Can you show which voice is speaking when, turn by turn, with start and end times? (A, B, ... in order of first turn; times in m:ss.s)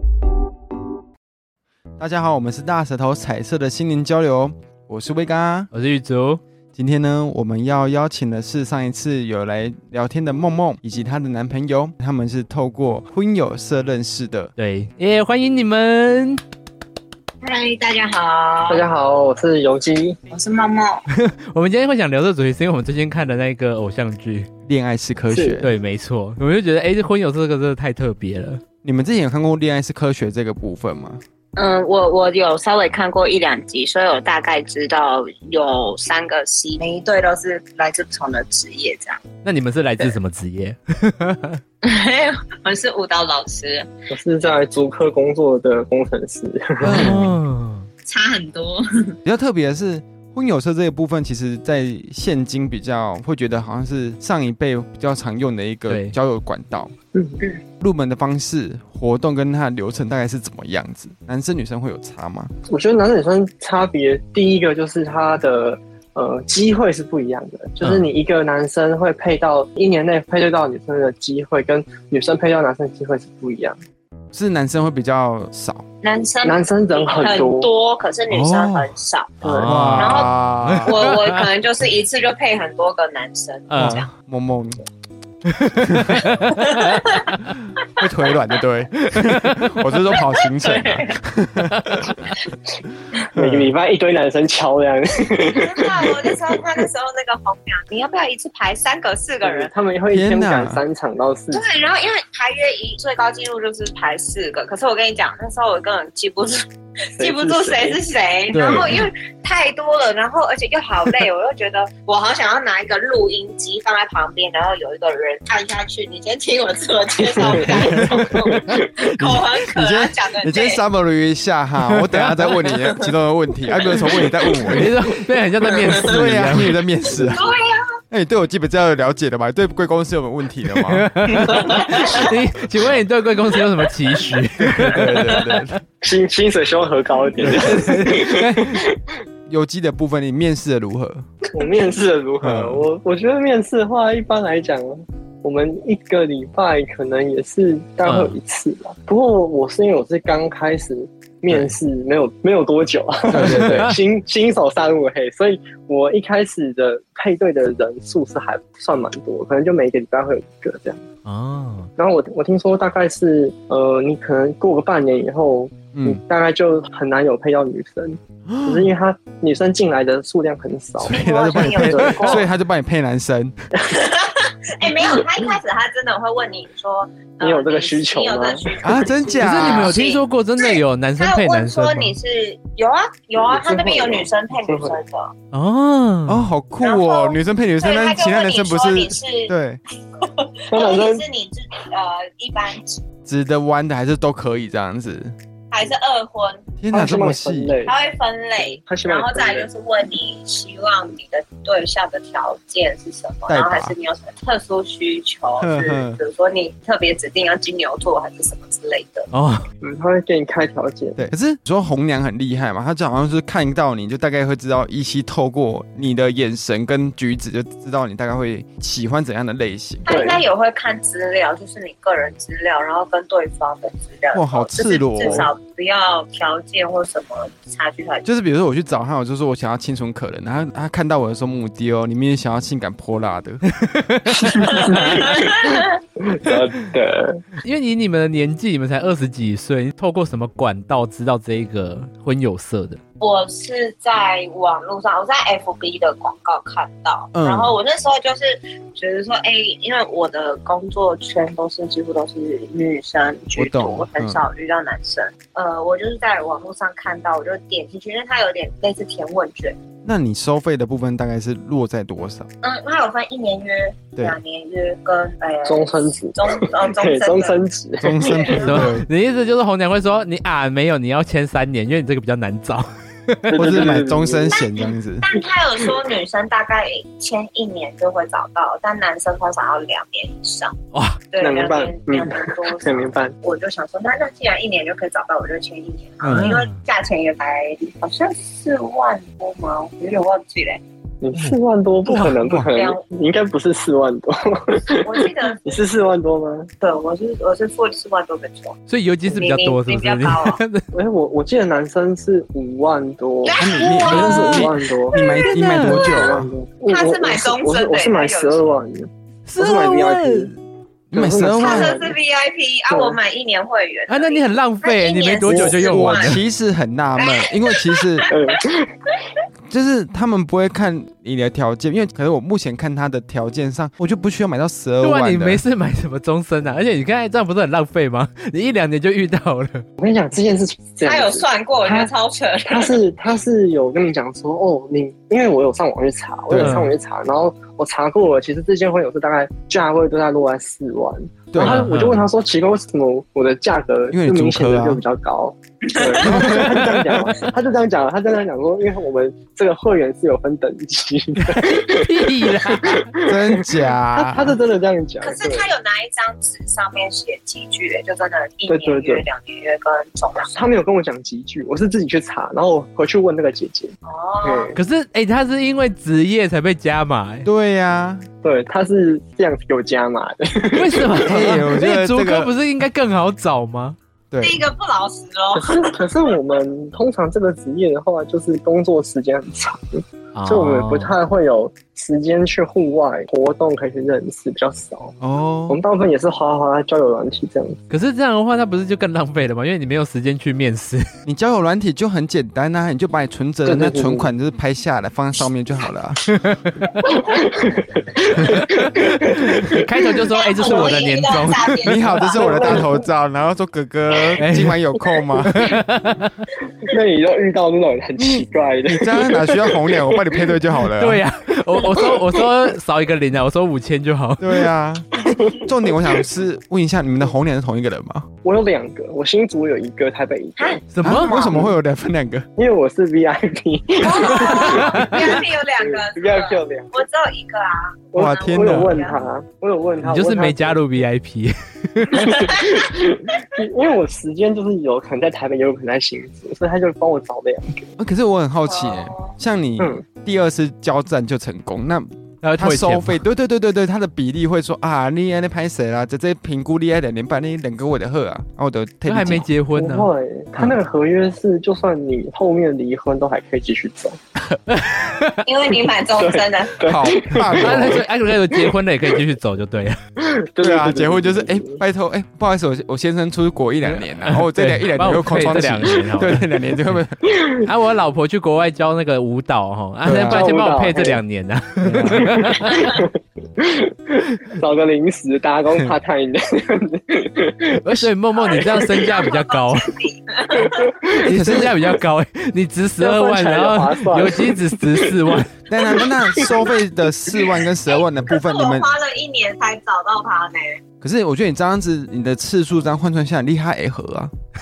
0:02.0-0:05.7 A
0:05.7-0:06.4 B
0:06.7-0:14.5 A
0:14.6-0:16.4 B
0:17.4-0:18.8 C
0:18.7-0:20.2 D
0:20.3-0:21.0 C
0:21.1-0:24.5 B
0:24.7-0:25.7 A
0:25.3-0:25.6 D
0:25.6-0:28.6 B
0:28.8-0:31.2 A
0:31.6-0:39.2 C
0:39.4-0:41.6 B
0:41.8-0:43.9 C
0:44.1-0:47.3 D
0:46.8-0:47.3 A
0:46.8-0:47.9 B
0:48.0-0:49.2 C
0:49.2-0:56.9 A
0:55.9-0:56.1 B
0:57.1-0:57.4 D
0:57.8-1:02.5 A
1:02.7-1:13.8 D
1:14.3-1:15.8 A
1:16.0-1:19.3 C
1:16.4-1:17.7 D
1:18.3-1:19.0 A
1:19.4-1:19.8 D
1:19.4-1:21.4 B
1:19.7-1:21.0 A
1:20.0-1:24.1 C
1:23.7-1:24.0 B
1:23.8-1:24.8 A
1:25.5-1:27.4 B
1:25.8-1:26.3 A
1:26.5-1:27.2 C
1:28.0-1:32.1 A
1:29.0-1:29.8 B
1:30.1-1:31.1 C
1:31.7-1:32.0 B
1:33.3-1:33.7 A
1:33.3-1:36.3 D
1:35.5-1:39.7 C
1:39.4-1:41.6 D
1:40.1-1:40.8 A
1:41.5-2:00.8 C
1:47.2-1:48.0 D
1:48.5-1:49.0 A
1:57.2-1:59.3 D
1:57.5-1:58.5 A
1:59.2-2:05.0 A
2:01.9-2:02.5 B
2:02.7-2:03.1 C
2:03.8-2:04.8 C
2:04.7-2:06.8 B
2:06.0-2:07.4 A
2:07.1-2:07.9 C
2:08.1-2:11.5 A
2:10.8-2:15.8 B
2:11.4-2:12.3 C
2:14.8-2:15.8 A
2:16.0-2:19.2 D
2:17.4-2:18.8 B
2:17.5-2:17.7 A
2:19.5-2:21.2 A
2:21.5-2:41.0 D
2:22.4-2:22.8 A
2:28.0-2:28.3 B
2:33.3-2:33.9 A
2:33.4-2:34.0 B
2:41.2-2:41.9 B
2:42.0-2:52.5 D
2:45.9-2:46.2 A
2:48.5-2:48.9 A
2:51.0-2:53.6 A
2:51.1-2:52.5 C
2:53.9-3:05.3 C
2:57.4-2:59.5 D
2:58.8-3:00.0 A
2:59.4-3:02.2 B
3:03.4-3:05.0 D
3:05.5-3:06.5 B
3:06.3-3:09.8 A
3:06.8-3:09.5 C
3:10.2-3:13.0 C
3:10.7-3:11.2 D
3:13.2-3:15.3 A
3:15.7-3:16.7 C
3:16.8-3:17.8 A
3:16.9-3:17.9 D
3:17.8-3:29.3 C
3:18.6-3:19.7 D
3:23.5-3:23.9 A
3:25.6-3:26.2 A
3:29.3-3:29.7 B
3:29.8-3:31.2 D
3:31.2-3:40.1 A
3:40.1-3:48.2 C
3:40.1-3:40.4 D
3:44.3-3:45.5 A
3:48.2-3:53.6 A
3:53.8-3:55.1 B
3:54.3-3:57.4 D
3:54.6-3:56.0 C
3:57.6-4:03.0 B
4:03.2-4:19.8 C
4:07.3-4:07.8 A
4:13.6-4:14.4 A
4:20.0-4:22.5 A
4:22.6-4:27.6 C
4:25.6-4:28.7 D
4:28.0-4:29.1 A
4:28.2-4:28.6 C
4:28.5-4:33.9 B
4:33.5-4:34.6 D
4:33.6-4:35.2 A
4:34.5-4:40.8 C
4:40.9-4:41.2 B
4:41.3-4:50.8 C
4:41.4-4:43.3 D
4:46.2-4:46.8 B
4:51.2-4:56.7 D
4:51.3-4:52.6 B
4:52.6-4:53.0 C
4:54.8-4:55.8 C
4:56.8-5:00.6 C
4:58.9-5:00.8 B
5:00.9-5:05.2 D
5:03.4-5:08.6 C
5:03.6-5:06.5 A
5:04.0-5:04.6 B
5:05.4-5:06.2 B
5:06.0-5:10.6 D
5:09.5-5:10.5 B
5:11.1-5:12.0 A
5:11.1-5:12.1 D
5:11.4-5:16.4 C
5:12.9-5:13.2 D
5:14.1-5:16.4 B
5:15.5-5:15.8 D
5:15.9-5:18.3 A
5:17.2-5:18.6 C
5:18.3-5:19.1 D
5:19.7-5:25.6 A
5:25.0-5:29.9 B
5:30.0-5:32.1 D
5:31.0-5:33.0 C
5:32.6-5:55.7 D
5:36.5-5:36.9 A
5:36.6-5:36.9 B
5:41.5-5:41.9 A
5:41.6-5:42.2 B
5:44.1-5:45.0 A
5:45.9-5:46.5 C
5:46.2-5:46.9 A
5:46.3-5:46.9 B
5:51.6-5:53.1 B
5:53.2-5:54.6 A
5:55.2-6:00.6 C
5:58.7-5:59.2 D
6:00.5-6:04.8 D
6:04.0-6:04.8 C
6:04.8-6:07.5 B
6:07.4-6:08.2 A
6:08.4-6:11.4 D
6:10.7-6:14.0 B
6:11.1-6:12.5 A
6:14.3-6:14.6 A
6:14.4-6:15.9 C
6:15.5-6:25.2 D
6:20.3-6:21.1 B
6:25.2-6:25.8 A
6:25.7-6:27.8 D
6:27.9-6:31.1 B
6:31.2-6:36.3 A
6:33.6-6:34.3 D
6:36.3-6:36.7 B
6:37.0-6:40.0 D
6:37.0-6:37.4 C
6:38.4-6:42.0 B
6:40.2-6:42.9 C
6:40.6-6:41.0 D
6:41.8-6:45.8 A
6:42.3-6:43.0 D
6:44.4-6:44.8 B
6:45.4-6:46.4 B
6:46.8-6:50.6 D
6:48.2-6:51.2 A
6:51.0-6:54.4 B
6:51.8-6:52.4 D
6:54.4-6:58.3 A
6:55.2-6:56.1 D
6:58.4-7:00.8 D
7:00.6-7:01.7 C
7:00.9-7:01.3 B
7:01.0-7:02.5 A
7:02.6-7:06.9 D
7:04.0-7:09.2 C
7:04.2-7:05.2 B
7:08.1-7:10.8 D
7:08.2-7:09.0 A
7:10.0-7:12.5 B
7:12.1-7:17.9 D
7:12.4-7:12.9 C
7:18.0-7:29.5 A
7:18.6-7:19.3 C
7:19.8-7:20.0 D
7:22.4-7:23.2 B
7:29.1-7:30.1 B
7:29.8-7:34.2 D
7:34.5-7:35.4 B
7:35.4-7:36.9 C
7:36.1-7:38.7 D
7:36.8-7:38.1 A
7:37.5-7:40.0 B
7:40.2-7:41.8 D
7:40.6-7:47.3 A
7:43.9-7:47.0 B
7:47.4-7:47.7 D
7:47.6-7:53.0 B
7:50.0-7:50.5 A
7:50.1-7:51.2 D
7:51.8-7:52.3 A
7:52.1-7:58.7 D
7:52.7-7:53.0 C
7:57.8-7:59.9 B
7:58.4-8:00.9 C
8:00.5-8:01.2 D
8:01.2-8:05.6 B
8:01.3-8:01.7 A
8:03.0-8:05.1 D
8:05.7-8:08.9 A
8:05.8-8:06.7 D
8:07.9-8:10.8 C
8:11.0-8:14.3 A